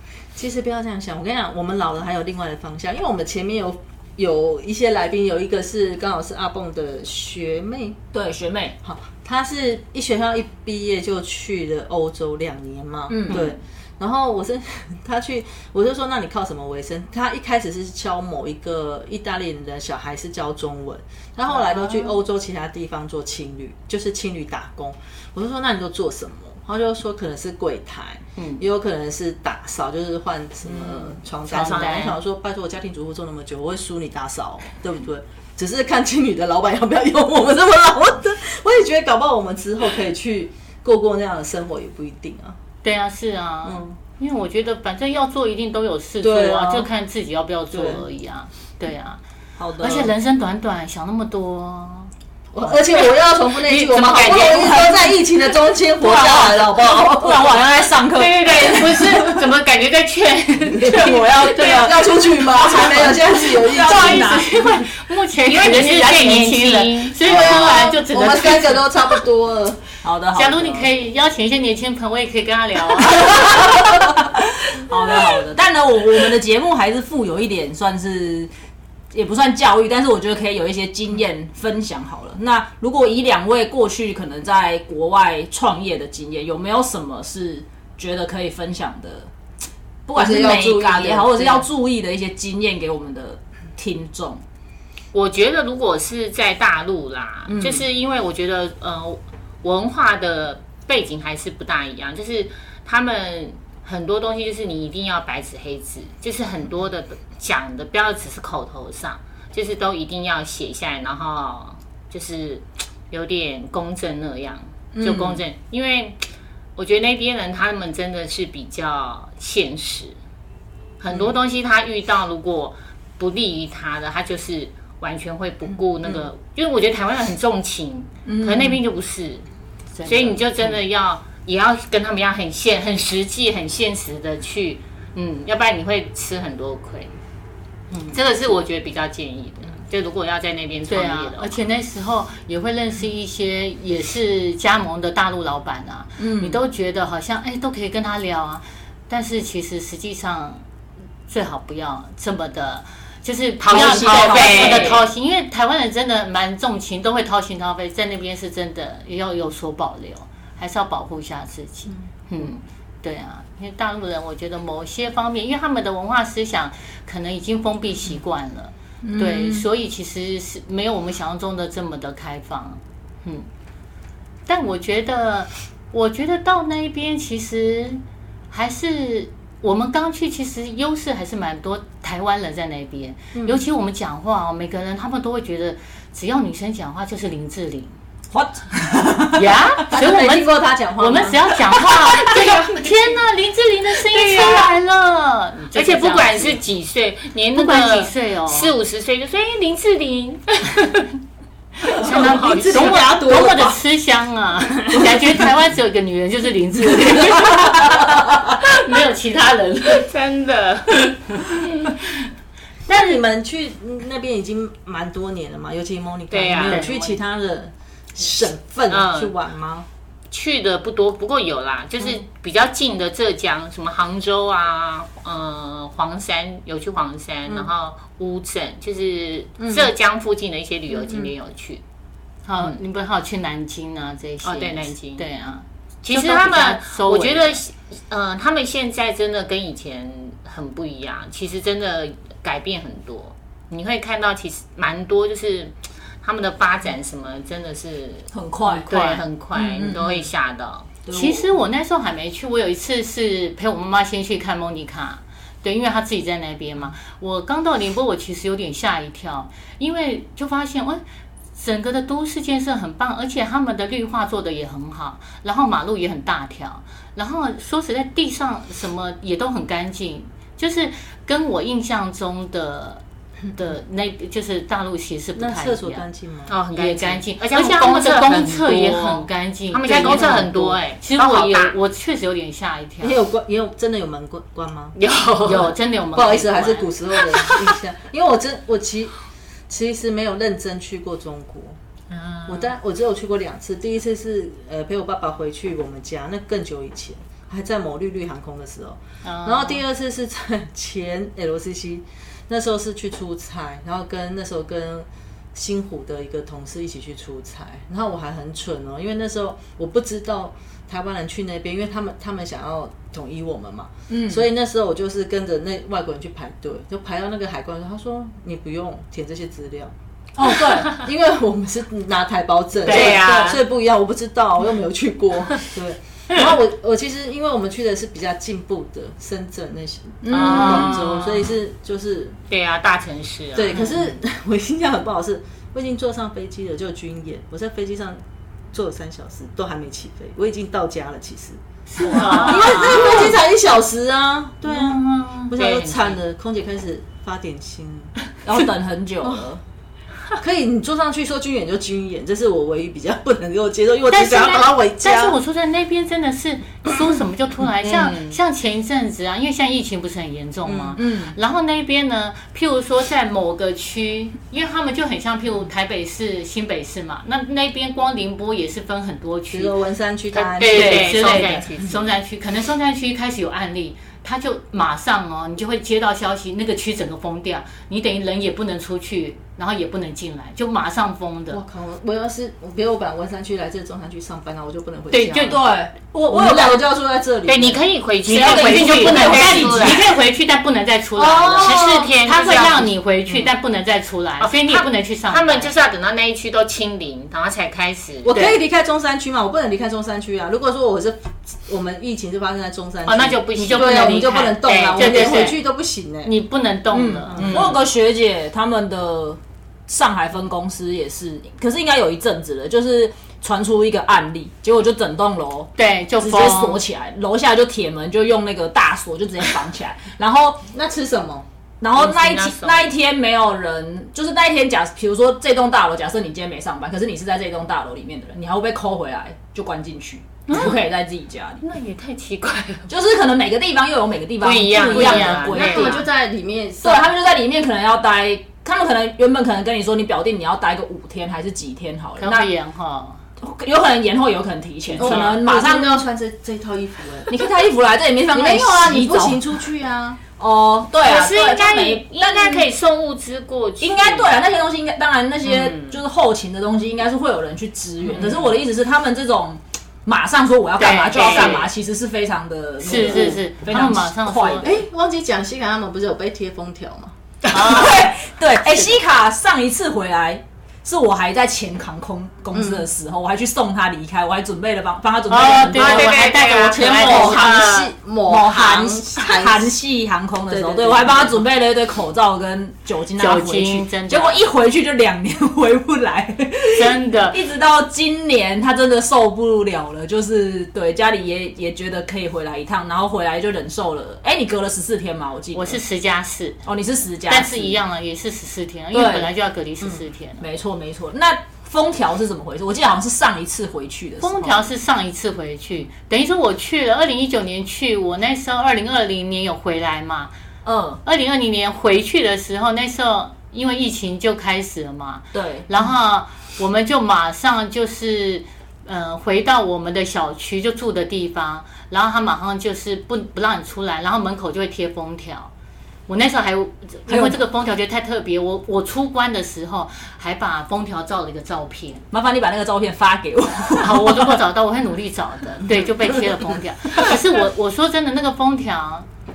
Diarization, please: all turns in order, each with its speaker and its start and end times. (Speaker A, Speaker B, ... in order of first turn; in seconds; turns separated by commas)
Speaker A: 0.3-8.0, Speaker B: 8.1-8.8, Speaker A: 8.8-42.6, Speaker B: 13.1-13.5, Speaker C: 21.5-22.1, Speaker C: 28.4-28.6, Speaker B: 30.7-31.1, Speaker C: 31.5-32.2, Speaker C: 42.8-49.2, Speaker A: 43.6-44.0, Speaker A: 46.2-46.9, Speaker A: 47.7-48.0, Speaker B: 49.6-50.1, Speaker C: 49.8-52.1, Speaker A: 52.5-57.6, Speaker D: 53.6-55.0, Speaker B: 54.4-54.9, Speaker B: 56.0-59.5, Speaker D: 58.1-62.1, Speaker A: 60.6-64.3, Speaker B: 60.9-64.9, Speaker C: 63.6-69.1, Speaker D: 65.5-67.6, Speaker A: 67.2-69.8, Speaker B: 70.0-70.9, Speaker C: 70.3-73.8, Speaker B: 73.2-78.5, Speaker B: 79.1-89.3, Speaker B: 90.1-94.4, Speaker A: 90.1-91.7, Speaker D: 95.1-116.2, Speaker B: 97.5-97.8, Speaker B: 115.0-115.4, Speaker D: 116.8-120.2, Speaker D: 121.0-129.4, Speaker B: 128.3-128.8, Speaker C: 129.9-130.7, Speaker D: 130.1-137.2, Speaker C: 137.9-138.2, Speaker D: 138.1-141.6, Speaker C: 140.9-150.7, Speaker B: 146.2-146.6, Speaker C: 151.3-173.5, Speaker D: 153.6-155.1, Speaker B: 153.7-155.0, Speaker B: 169.0-169.7, Speaker C: 174.5-187.9, Speaker A: 183.3-183.6, Speaker B: 188.3-189.7, Speaker C: 189.3-196.6, Speaker A: 189.9-191.5, Speaker D: 192.3-193.2, Speaker D: 194.1-194.7, Speaker D: 195.8-201.1, Speaker C: 197.5-198.7, Speaker C: 201.8-210.1, Speaker D: 201.9-203.1, Speaker A: 202.0-203.8, Speaker B: 203.2-203.5, Speaker D: 209.9-211.9, Speaker C: 212.9-213.2, Speaker A: 212.9-219.9, Speaker D: 216.3-217.1, Speaker C: 216.7-216.9, Speaker D: 218.9-219.3, Speaker D: 220.3-231.8, Speaker C: 232.4-237.6, Speaker D: 234.4-235.2, Speaker D: 236.0-250.9, Speaker B: 248.3-248.9, Speaker C: 248.8-249.2, Speaker B: 249.5-250.3, Speaker B: 251.1-251.5, Speaker C: 251.1-261.0, Speaker C: 261.6-276.1, Speaker A: 275.4-276.5, Speaker D: 276.5-281.8, Speaker C: 276.7-283.2, Speaker A: 283.0-285.0, Speaker D: 285.0-285.8, Speaker C: 285.4-287.0, Speaker A: 286.1-289.1, Speaker A: 289.7-291.8, Speaker D: 292.1-292.7, Speaker A: 292.5-319.9, Speaker C: 299.2-299.8, Speaker B: 314.1-314.5, Speaker B: 320.4-321.1, Speaker A: 320.4-332.4, Speaker B: 322.9-323.6, Speaker D: 322.9-323.6, Speaker B: 330.2-331.1, Speaker D: 330.4-331.1, Speaker C: 330.5-330.9, Speaker D: 332.5-334.0, Speaker A: 333.6-348.1, Speaker C: 333.7-334.0, Speaker C: 341.9-343.3, Speaker D: 342.1-343.3, Speaker B: 342.2-342.8, Speaker C: 344.6-345.5, Speaker D: 345.5-346.2, Speaker B: 348.4-349.6, Speaker A: 350.4-355.4, Speaker C: 354.1-369.8, Speaker B: 357.8-358.4, Speaker A: 360.6-361.0, Speaker B: 361.0-361.4, Speaker A: 369.5-371.8, Speaker D: 370.3-372.1, Speaker C: 370.6-381.6, Speaker A: 381.5-387.9, Speaker C: 385.1-385.6, Speaker B: 385.4-386.8, Speaker D: 387.5-390.1, Speaker B: 388.3-390.1, Speaker C: 388.3-395.7, Speaker B: 391.2-392.1, Speaker D: 391.6-392.9, Speaker D: 394.4-398.4, Speaker A: 398.2-406.3, Speaker D: 403.1-405.5, Speaker C: 403.5-405.6, Speaker C: 406.2-407.7, Speaker B: 406.9-420.7, Speaker A: 407.3-407.8, Speaker C: 415.8-416.8, Speaker A: 420.7-421.5, Speaker B: 421.8-431.6, Speaker D: 421.9-422.9, Speaker D: 430.5-430.8, Speaker D: 431.6-432.9, Speaker B: 432.9-436.1, Speaker D: 434.4-436.1, Speaker C: 434.9-435.7, Speaker A: 434.9-437.1, Speaker B: 436.8-442.5, Speaker C: 442.2-443.2, Speaker B: 443.4-446.0, Speaker A: 445.0-447.5, Speaker B: 447.3-449.4, Speaker A: 448.3-450.2, Speaker B: 450.4-452.7, Speaker D: 451.0-454.4, Speaker B: 453.8-464.8, Speaker D: 455.4-456.0, Speaker D: 458.1-458.5, Speaker C: 460.8-461.6, Speaker D: 461.1-461.7, Speaker C: 462.8-464.7, Speaker A: 464.6-467.1, Speaker D: 467.5-467.9, Speaker B: 467.5-477.8, Speaker C: 467.6-467.9, Speaker A: 472.5-472.9, Speaker C: 475.3-477.5, Speaker D: 475.4-477.9, Speaker A: 476.6-479.7, Speaker B: 478.3-495.8, Speaker A: 480.5-481.4, Speaker C: 483.2-484.5, Speaker C: 486.8-487.4, Speaker C: 495.5-496.6, Speaker B: 496.6-497.8, Speaker C: 497.3-500.4, Speaker B: 498.9-499.3, Speaker B: 500.4-504.6, Speaker C: 504.2-510.3, Speaker B: 510.6-511.0, Speaker C: 511.0-525.5, Speaker B: 515.3-515.7, Speaker C: 526.1-532.0, Speaker B: 527.1-527.4, Speaker B: 532.1-534.4, Speaker C: 533.8-539.1, Speaker B: 535.7-536.2, Speaker B: 536.9-537.2